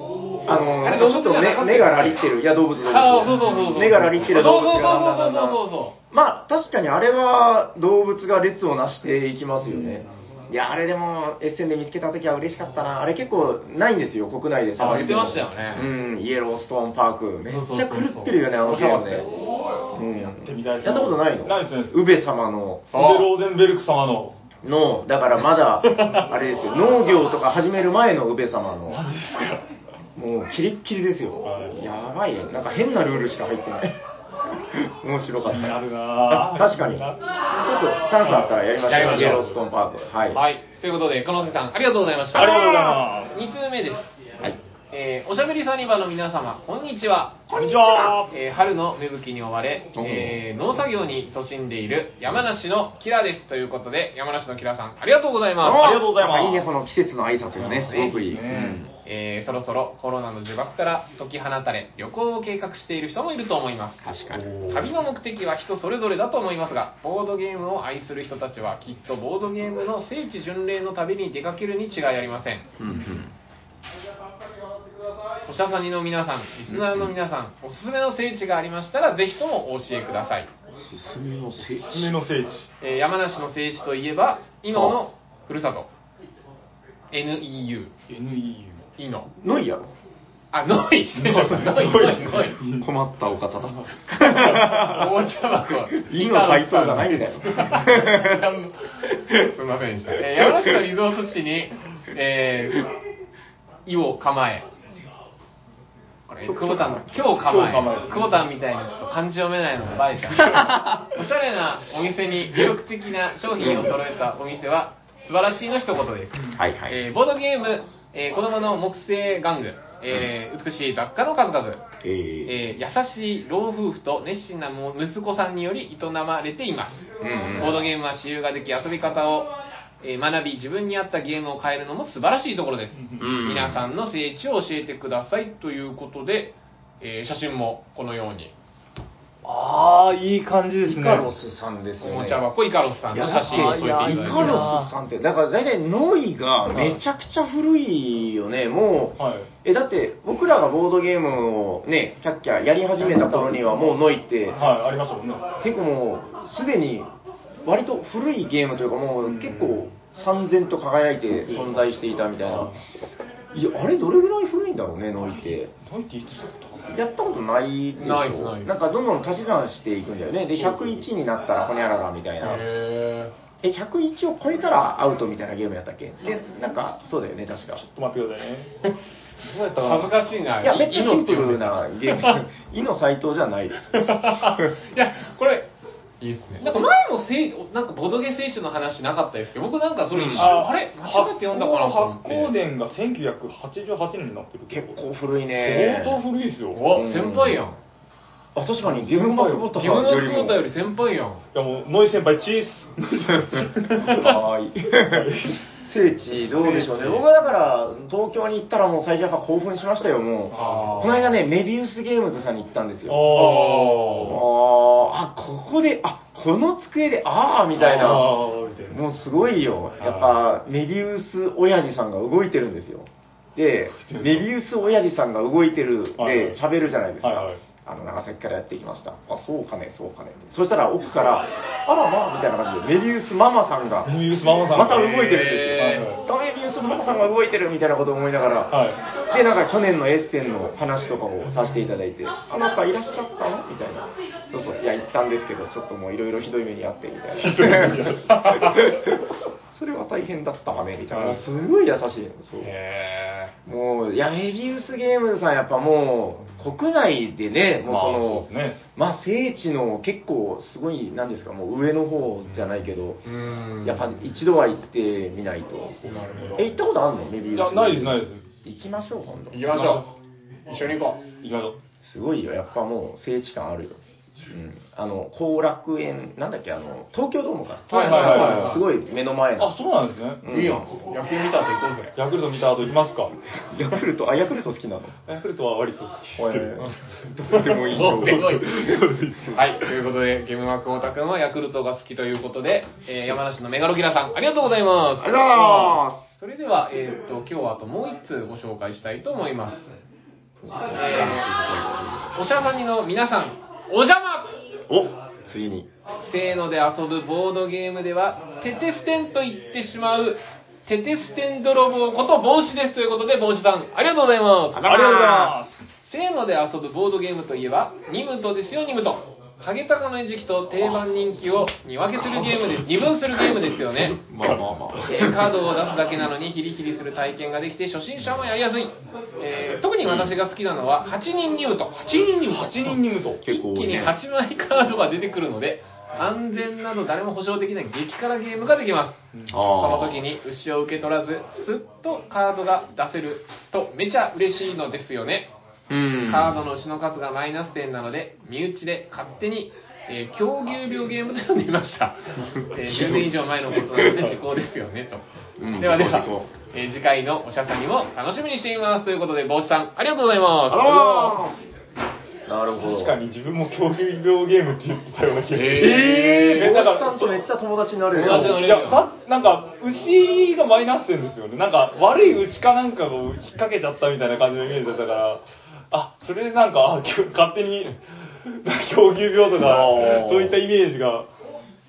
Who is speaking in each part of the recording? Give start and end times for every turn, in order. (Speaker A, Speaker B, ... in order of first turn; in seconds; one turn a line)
Speaker A: 0.5-5.6
Speaker B: 0.5-2.2
Speaker B: 2.9-6.0
Speaker A: 6.1-19.3
Speaker B: 9.7-10.1
Speaker C: 14.8-15.3
Speaker B: 14.8-15.9
Speaker B: 17.5-19.3
Speaker A: 19.9-22.9
Speaker C: 20.4-22.0
Speaker B: 22.9-23.3
Speaker C: 22.9-24.4
Speaker A: 24.6-29.0
Speaker B: 25.8-26.2
Speaker C: 28.9-29.6
Speaker A: 30.2-33.9
Speaker C: 31.4-31.9
Speaker A: 34.6-40.4
Speaker C: 35.5-37.2
Speaker C: 38.2-39.6
Speaker B: 38.8-39.5
Speaker B: 40.3-44.1
Speaker A: 42.3-43.1
Speaker C: 42.4-43.4
Speaker B: 44.9-47.5
Speaker A: 47.5-48.2
Speaker C: 47.5-48.3
Speaker B: 48.2-56.1
Speaker A: 49.9-50.4
Speaker A: 55.6-58.9
Speaker C: 55.8-56.7
Speaker B: 57.6-58.0
Speaker C: 57.7-58.8
Speaker B: 59.0-72.7
Speaker A: 64.0-64.7
Speaker C: 64.3-64.9
Speaker A: 72.8-73.3
Speaker B: 75.5-80.5
Speaker A: 76.7-77.1
Speaker A: 80.8-82.2
Speaker C: 81.8-82.7
Speaker B: 82.8-85.9
Speaker A: 84.7-85.0
Speaker B: 87.1-87.9
Speaker C: 88.1-88.8
Speaker B: 89.0-89.3
Speaker A: 89.4-89.9
Speaker B: 90.5-92.6
Speaker C: 91.2-92.9
Speaker A: 91.7-95.1
Speaker B: 94.1-102.9
Speaker A: 95.9-98.5
Speaker A: 100.4-100.8
Speaker B: 103.9-104.7
Speaker B: 106.3-121.8
Speaker C: 106.5-108.4
Speaker A: 110.5-111.0
Speaker A: 113.6-113.9
Speaker A: 116.5-117.0
Speaker A: 122.0-122.6
Speaker B: 122.5-129.5
Speaker A: 127.2-127.9
Speaker B: 130.0-138.5
Speaker C: 132.9-133.3
Speaker A: 133.2-133.9
Speaker C: 139.4-141.3
Speaker A: 140.8-142.4
Speaker B: 142.0-144.8
Speaker A: 143.1-154.7
Speaker C: 143.4-144.9
Speaker C: 146.7-147.0
Speaker C: 149.2-149.5
Speaker C: 153.0-154.0
Speaker C: 154.5-155.5
Speaker A: 155.6-157.1
Speaker A: 157.7-162.7
Speaker C: 159.2-159.9
Speaker C: 161.4-162.8
Speaker A: 163.5-165.7
Speaker C: 165.4-167.0
Speaker A: 166.9-172.7
Speaker B: 168.0-168.7
Speaker C: 170.6-171.1
Speaker B: 172.4-173.3
Speaker A: 173.6-177.8
Speaker C: 177.8-178.7
Speaker C: 179.4-180.1
Speaker B: 179.8-182.4
Speaker A: 180.6-184.7
Speaker B: 183.9-185.7
Speaker B: 186.2-192.5
Speaker A: 190.1-190.5
Speaker C: 190.3-195.0
Speaker A: 194.7-196.2
Speaker C: 195.6-196.8
Speaker B: 196.7-197.8
Speaker A: 196.9-197.6
Speaker A: 198.6-200.7
Speaker C: 198.8-199.7
Speaker B: 199.8-201.4
Speaker C: 201.5-204.4
Speaker A: 203.4-213.3
Speaker B: 203.8-204.3
Speaker C: 205.0-205.6
Speaker B: 206.6-207.2
Speaker C: 210.5-211.0
Speaker B: 210.5-211.3
Speaker C: 213.1-214.4
Speaker B: 213.3-214.4
Speaker A: 214.2-218.4
Speaker C: 217.8-219.0
Speaker A: 218.9-234.1
Speaker C: 220.0-220.4
Speaker C: 223.9-224.5
Speaker C: 226.2-226.6
Speaker C: 227.2-227.6
Speaker C: 234.1-236.2
Speaker A: 234.7-252.7
Speaker B: 234.9-236.1
Speaker C: 238.7-239.0
Speaker C: 247.4-249.0
Speaker C: 251.1-251.4
Speaker B: 252.6-253.5
Speaker A: 253.7-263.2
Speaker C: 257.9-258.8
Speaker B: 263.2-264.1
Speaker A: 263.8-269.9
Speaker B: 266.0-266.6
Speaker C: 267.6-268.4
Speaker B: 269.5-270.1
Speaker B: 270.7-271.2
Speaker C: 271.4-271.8
Speaker A: 272.0-279.7
Speaker B: 277.9-278.8
Speaker C: 278.0-278.8
Speaker C: 279.6-280.4
Speaker A: 280.4-281.0
Speaker B: 280.5-282.1
Speaker C: 282.2-283.3
Speaker A: 283.7-285.2
Speaker C: 285.3-286.8
Speaker A: 286.4-289.5
Speaker B: 287.5-288.7
Speaker C: 288.0-289.6
Speaker B: 289.5-299.9
Speaker A: 295.2-296.2
Speaker A: 300.6-302.4
Speaker B: 300.9-301.5
Speaker B: 302.3-304.5
Speaker A: 304.9-305.9
Speaker B: 306.2-315.0
Speaker A: 314.7-315.6
Speaker C: 314.8-315.9
Speaker B: 316.1-324.2
Speaker A: 322.3-325.5
Speaker B: 325.0-345.5
Speaker A: 330.0-330.4
Speaker C: 332.5-333.4
Speaker A: 333.4-334.2
Speaker A: 339.5-340.2
Speaker A: 345.9-346.6
Speaker B: 346.3-355.2
Speaker A: 352.8-354.2
Speaker A: 355.6-356.5
Speaker B: 355.8-361.4
Speaker A: 360.7-361.6
Speaker A: 362.5-363.2
Speaker C: 362.8-367.4
Speaker B: 365.5-366.8
Speaker A: 365.8-368.6
Speaker B: 368.1-369.0
Speaker C: 368.2-378.0
Speaker C: 378.6-381.3
Speaker A: 379.6-380.6